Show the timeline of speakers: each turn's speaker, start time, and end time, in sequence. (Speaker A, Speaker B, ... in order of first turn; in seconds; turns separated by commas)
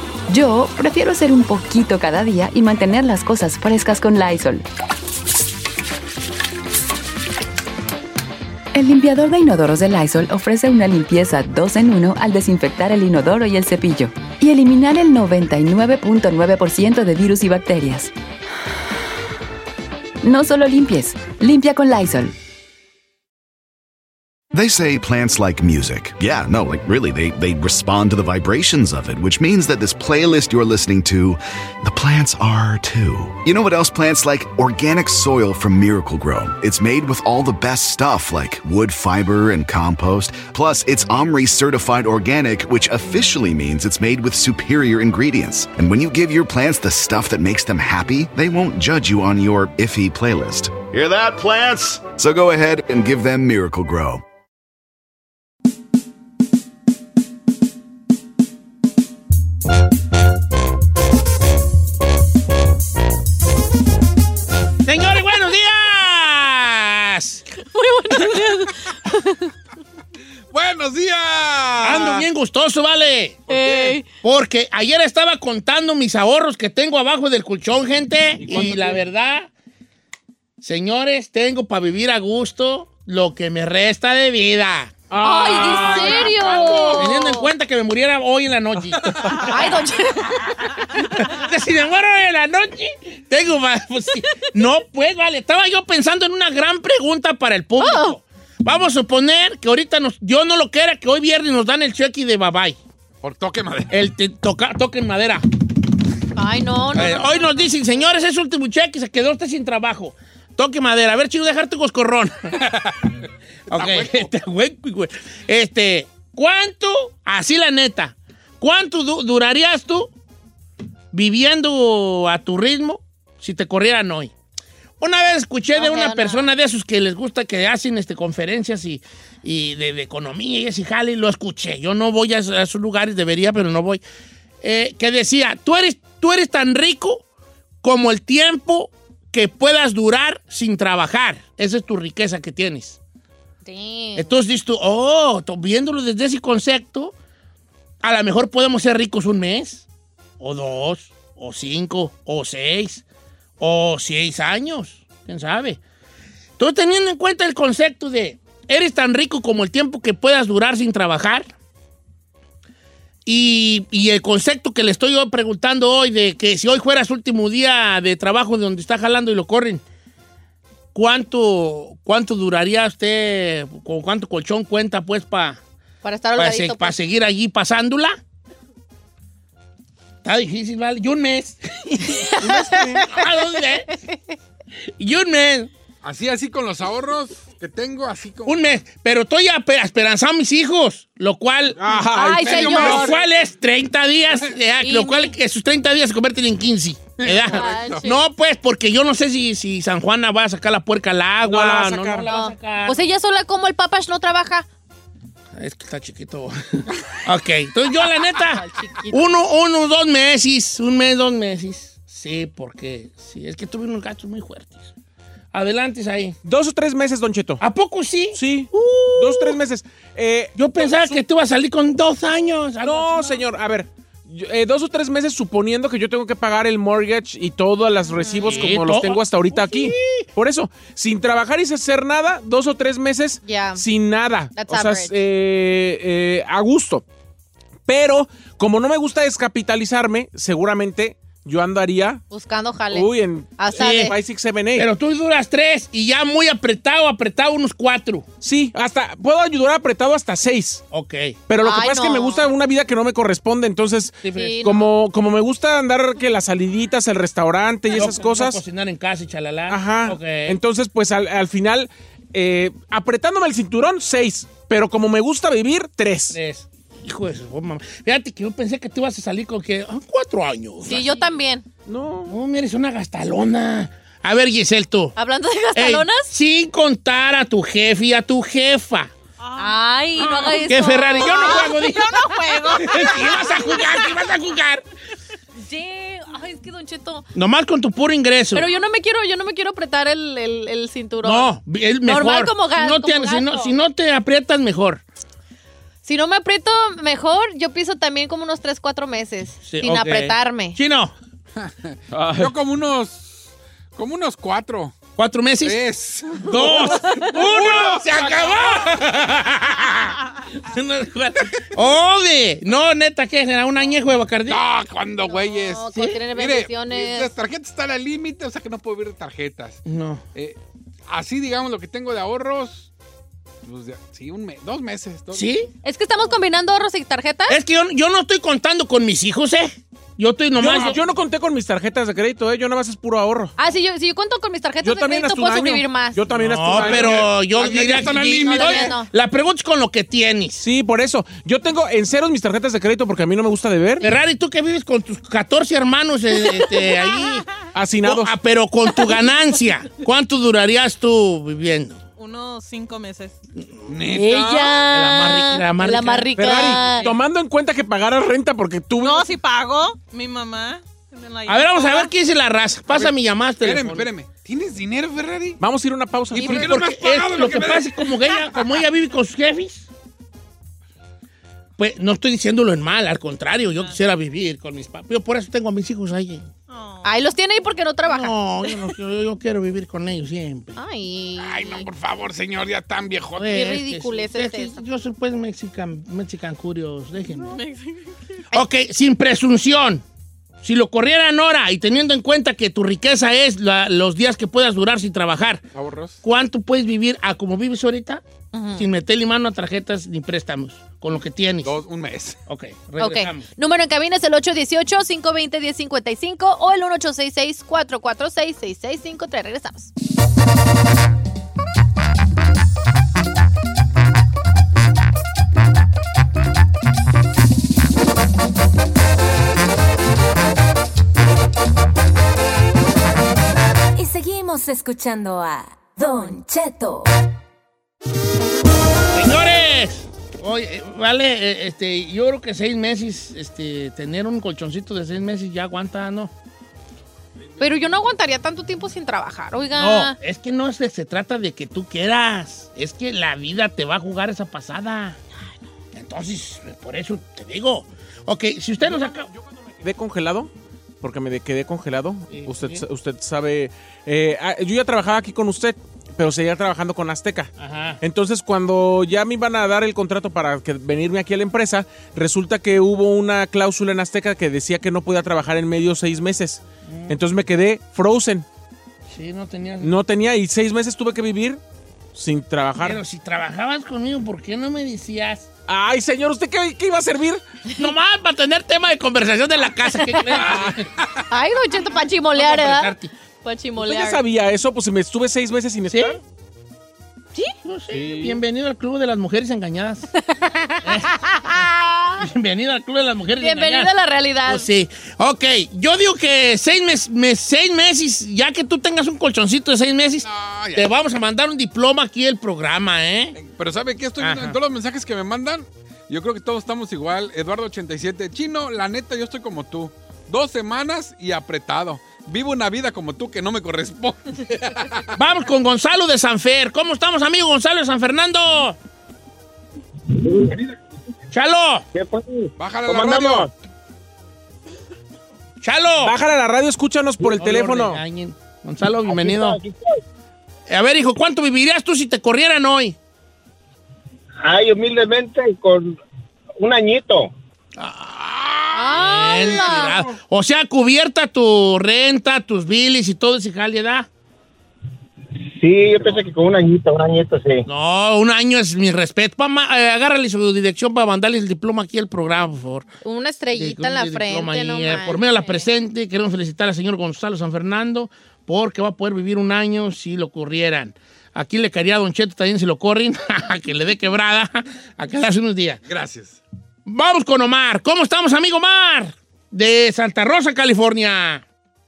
Speaker A: 0.3-4.7, Speaker A: 8.7-18.1, Speaker A: 20.2-22.3, Speaker B: 24.5-54.2, Speaker C: 64.8-67.4, Speaker D: 67.6-69.5, Speaker E: 70.5-72.3, Speaker C: 71.8-73.4, Speaker E: 73.5-74.0, Speaker D: 73.5-74.0, Speaker C: 74.2-79.5, Speaker F: 78.5-79.0, Speaker C: 80.6-85.0, Speaker F: 85.1-86.9, Speaker D: 85.2-87.5, Speaker G: 86.6-86.9, Speaker C: 86.9-89.8, Speaker D: 89.4-90.5, Speaker C: 90.8-102.8, Speaker D: 97.8-98.2, Speaker E: 103.2-103.9, Speaker C: 103.9-105.4, Speaker D: 106.3-107.7, Speaker C: 106.9-112.7, Speaker E: 112.7-113.1, Speaker C: 113.7-120.1, Speaker E: 113.7-114.3, Speaker C: 121.1-124.3, Speaker C: 125.0-134.0, Speaker D: 125.7-126.5, Speaker C: 134.6-137.2, Speaker C: 137.8-143.0, Speaker D: 143.6-144.3, Speaker C: 144.2-147.1, Speaker C: 148.0-149.8, Speaker C: 150.4-153.0, Speaker C: 153.6-155.8, Speaker C: 156.6-161.5, Speaker C: 163.2-169.8, Speaker C: 170.9-175.6, Speaker D: 176.0-177.0, Speaker C: 176.4-178.2, Speaker C: 180.2-183.9, Speaker D: 182.1-184.4, Speaker C: 184.9-185.7, Speaker E: 186.0-188.6, Speaker C: 188.4-203.0, Speaker F: 191.8-192.6, Speaker D: 192.2-193.2, Speaker E: 192.4-193.3, Speaker D: 194.8-195.3, Speaker E: 197.2-198.0, Speaker D: 197.4-198.2, Speaker F: 201.4-202.3, Speaker D: 202.3-204.7, Speaker C: 205.6-214.9, Speaker D: 208.3-209.4, Speaker C: 215.5-216.4, Speaker F: 216.4-217.6, Speaker C: 217.6-219.6, Speaker F: 218.3-221.2, Speaker C: 220.6-223.4, Speaker F: 222.8-237.0, Speaker C: 228.4-230.3, Speaker D: 233.4-233.8, Speaker D: 234.6-235.1, Speaker F: 237.9-242.2, Speaker D: 242.3-244.2, Speaker F: 242.9-244.9, Speaker C: 243.8-244.2, Speaker C: 244.8-248.3, Speaker F: 248.4-250.8, Speaker C: 250.9-251.4, Speaker F: 251.5-258.6, Speaker D: 251.6-252.5, Speaker C: 254.2-254.6, Speaker D: 254.3-254.9, Speaker C: 257.9-260.6, Speaker F: 259.7-266.4, Speaker C: 266.3-271.1, Speaker D: 270.8-271.6, Speaker G: 271.0-271.3, Speaker F: 271.9-272.4, Speaker C: 272.3-275.2, Speaker D: 275.2-276.3, Speaker C: 275.7-279.1, Speaker G: 279.4-283.6, Speaker D: 279.6-284.0, Speaker C: 280.7-282.2, Speaker C: 282.7-284.8, Speaker D: 285.6-287.3, Speaker C: 287.3-288.6, Speaker D: 288.5-293.8, Speaker C: 291.2-295.0, Speaker D: 296.0-300.8, Speaker C: 299.7-301.1, Speaker E: 301.6-303.4, Speaker E: 303.9-305.0, Speaker C: 305.2-305.8, Speaker E: 305.6-309.0, Speaker C: 306.4-314.6, Speaker E: 314.5-319.8, Speaker D: 315.3-317.3, Speaker C: 319.9-320.2, Speaker E: 321.1-322.9, Speaker E: 323.6-325.5, Speaker C: 325.3-325.7, Speaker D: 325.8-327.6, Speaker C: 327.5-331.0, Speaker F: 330.6-333.5, Speaker D: 333.6-336.2, Speaker F: 334.8-337.3, Speaker C: 336.3-340.6, Speaker E: 336.7-338.9, Speaker D: 338.4-339.1, Speaker F: 340.6-344.1, Speaker C: 344.0-347.5, Speaker F: 347.7-348.3, Speaker C: 348.0-352.0, Speaker G: 352.2-353.4, Speaker E: 353.9-354.9, Speaker D: 354.1-357.1, Speaker C: 354.9-356.3, Speaker F: 356.4-359.3, Speaker G: 356.6-357.2, Speaker G: 359.0-362.1, Speaker C: 361.5-364.1, Speaker E: 362.9-365.6, Speaker F: 365.6-366.7, Speaker E: 366.3-368.0, Speaker C: 366.4-369.9, Speaker C: 371.8-376.5, Speaker G: 376.7-377.1, Speaker D: 377.0-378.4, Speaker C: 378.1-380.8, Speaker D: 380.8-381.9, Speaker E: 381.4-383.5, Speaker C: 383.4-387.6, Speaker D: 383.4-384.8, Speaker G: 387.4-388.1, Speaker C: 388.5-390.0, Speaker C: 390.6-395.6, Speaker E: 395.7-396.2, Speaker C: 396.2-398.2, Speaker D: 398.5-398.9, Speaker C: 398.8-401.7, Speaker E: 401.6-402.4, Speaker C: 402.5-403.5, Speaker D: 403.0-409.9, Speaker H: 423.9-427.1, Speaker C: 429.1-436.3, Speaker D: 437.6-440.2, Speaker C: 439.7-445.2, Speaker C: 445.9-449.3, Speaker F: 448.9-450.5, Speaker F: 451.0-457.5, Speaker C: 452.3-452.9, Speaker C: 457.6-458.0, Speaker F: 458.0-468.5, Speaker C: 466.9-467.2, Speaker C: 469.1-469.9, Speaker F: 469.8-471.6, Speaker F: 472.1-473.0, Speaker C: 472.8-475.5, Speaker F: 475.7-477.4, Speaker C: 477.8-480.9, Speaker D: 479.9-480.4, Speaker D: 481.3-482.9, Speaker C: 482.3-483.1, Speaker D: 483.4-484.2, Speaker F: 483.8-486.2, Speaker C: 485.9-486.2, Speaker C: 487.6-490.1, Speaker F: 487.9-488.4, Speaker D: 490.3-492.2, Speaker C: 490.8-491.6, Speaker C: 492.2-493.9, Speaker D: 493.4-494.7, Speaker C: 494.5-503.4, Speaker E: 500.2-500.9, Speaker E: 503.4-515.1, Speaker C: 504.2-504.6, Speaker C: 515.1-518.8, Speaker I: 520.1-520.6, Speaker C: 521.3-521.9, Speaker I: 521.9-523.5, Speaker E: 522.6-523.5, Speaker C: 525.6-526.2, Speaker F: 526.0-528.0, Speaker C: 527.3-529.6, Speaker I: 529.1-530.0, Speaker C: 530.7-533.0, Speaker I: 534.4-536.0, Speaker I: 536.6-537.3, Speaker C: 537.8-544.1, Speaker D: 538.7-540.0, Speaker I: 545.5-547.7, Speaker C: 547.7-552.9, Speaker D: 553.0-555.7, Speaker C: 553.5-565.8, Speaker E: 565.9-566.4, Speaker C: 566.9-571.4